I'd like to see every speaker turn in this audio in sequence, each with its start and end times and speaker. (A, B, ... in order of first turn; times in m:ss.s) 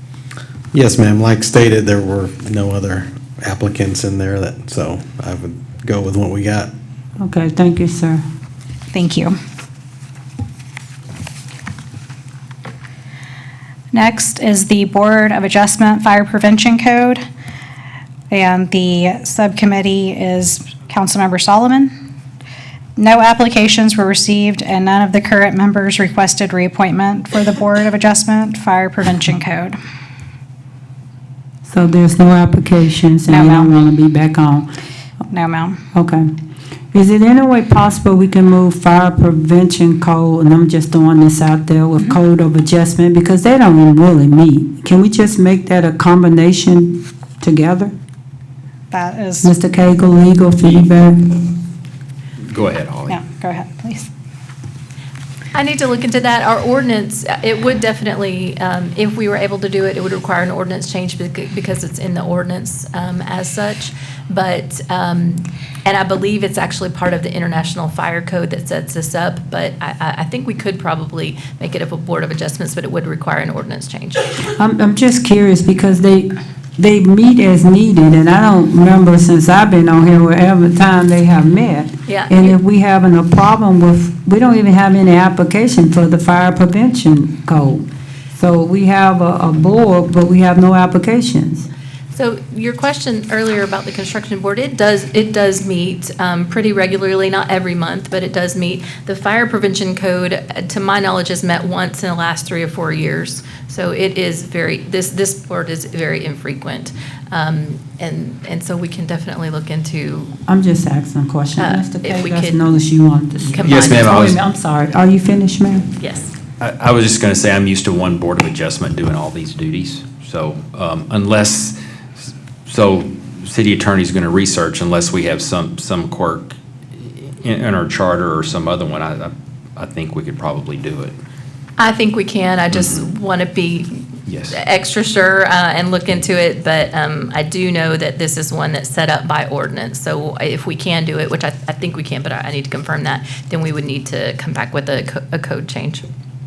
0:00.7-0:06.7 A
0:07.2-0:08.2 B
0:08.9-0:09.3 C
0:13.9-0:17.2 C
0:18.3-0:21.9 C
0:23.0-0:29.8 C
0:31.7-0:34.7 B
0:33.3-0:33.7 C
0:35.3-0:35.8 C
0:35.9-0:36.3 B
0:36.9-0:47.9 B
0:48.9-0:49.5 C
0:49.4-0:51.5 B
0:52.5-0:53.2 D
0:53.1-0:54.1 C
0:55.5-1:14.4 E
1:14.6-1:31.7 B
1:22.1-1:22.6 E
1:32.1-1:50.3 E
1:50.5-1:55.9 B
1:51.6-1:52.6 E
1:53.4-1:54.2 E
1:53.6-1:54.4 D
1:56.0-1:56.3 E
1:56.6-2:01.8 D
2:02.7-2:11.2 D
2:11.8-2:26.0 E
2:12.7-2:13.0 D
2:14.3-2:14.6 D